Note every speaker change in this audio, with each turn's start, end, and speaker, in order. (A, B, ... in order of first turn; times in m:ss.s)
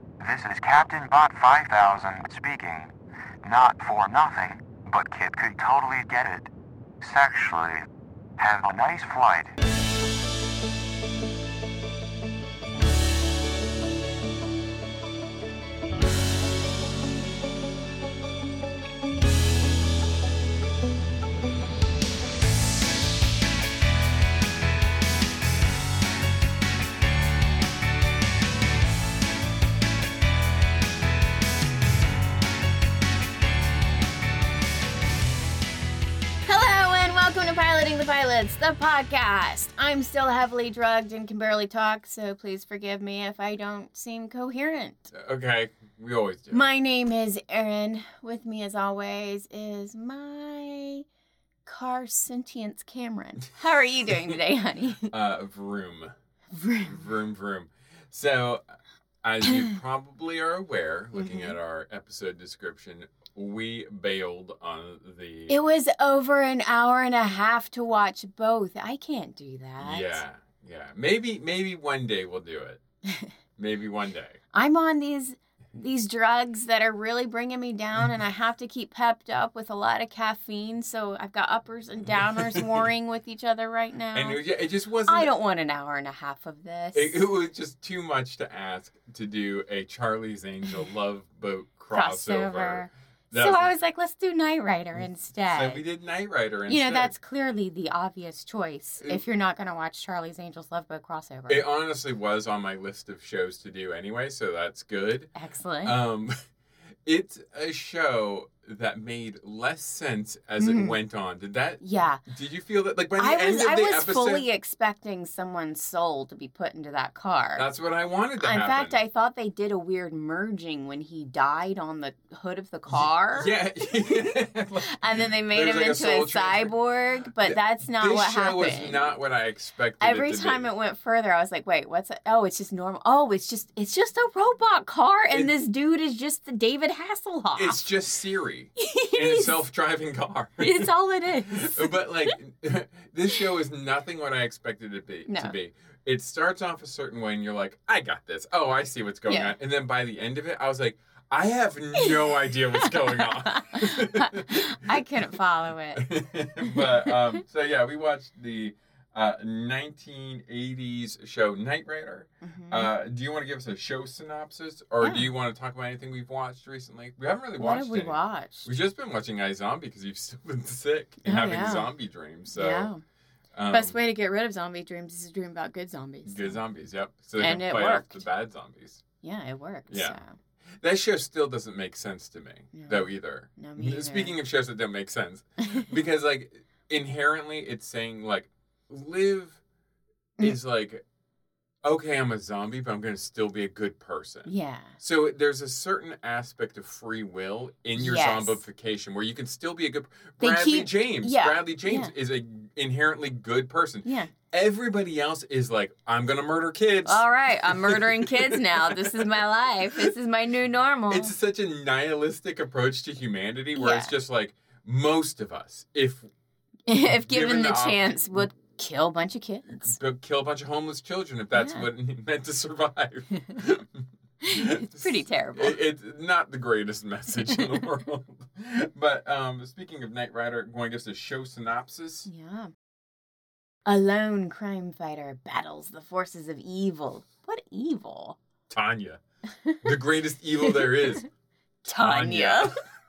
0:00.2-0:06.5 A
0:07.0-0:07.8 A
0:08.4-0:09.6 A
0:36.4-0:45.1 B
0:45.1-0:46.6 C
0:46.5-0:51.0 B
0:51.6-0:55.1 B
0:55.1-0:56.1 C
0:56.5-0:57.0 B
0:56.8-0:58.6 C
0:59.2-1:05.6 C
1:01.1-1:01.5 B
1:05.5-1:10.2 B
1:09.8-1:12.8 C
1:13.6-1:14.4 C
1:14.5-1:24.4 B
1:22.1-1:22.9 C
1:24.1-1:25.3 C
1:25.1-1:27.2 B
1:26.9-1:33.7 C
1:31.9-1:35.8 B
1:35.5-1:37.1 C
1:36.7-1:41.6 B
1:41.5-1:45.3 C
1:45.4-1:46.0 B
1:45.8-1:46.3 C
1:47.0-1:54.5 C
1:50.6-1:51.0 B
1:51.8-1:52.2 B
1:53.2-1:57.7 B
1:57.6-1:59.0 C
1:58.4-2:04.3 B
2:03.3-2:06.8 C
2:04.8-2:09.1 B
2:07.4-2:10.7 C
2:10.0-2:17.8 B
2:15.3-2:15.6 C
2:17.5-2:20.9 C
2:18.8-2:19.6 B
2:20.6-2:22.4 B
2:21.5-2:35.2 C
2:25.3-2:25.5 B
2:29.3-2:29.5 B
2:31.9-2:36.1 B
2:36.0-2:52.9 C
2:36.6-2:37.4 B
2:42.4-2:42.9 B
2:45.0-2:45.3 B
2:47.6-2:48.7 B
2:51.2-2:51.9 B
2:52.5-2:53.0 B
2:53.5-2:54.0 C
2:53.7-2:56.6 B
2:56.2-2:59.0 C
2:57.4-2:58.2 B
2:59.2-3:00.3 B
2:59.9-3:00.2 C
3:00.8-3:09.6 C
3:02.7-3:04.4 B
3:10.4-3:11.0 C
3:11.8-3:30.1 C
3:14.4-3:15.0 B
3:18.0-3:18.6 B
3:20.4-3:22.1 B
3:24.0-3:24.3 B
3:27.0-3:31.3 B
3:31.1-3:36.3 C
3:33.7-3:34.1 B
3:36.9-3:39.9 B
3:37.1-3:38.4 C
3:39.7-3:52.3 C
3:41.5-3:41.8 B
3:44.4-3:45.8 B
3:52.2-3:52.7 B
3:53.8-3:58.4 B
3:58.7-3:59.2 C
3:59.6-3:59.9 B
3:59.8-4:01.2 C
4:00.7-4:01.0 B
4:01.8-4:02.7 B
4:01.9-4:02.7 C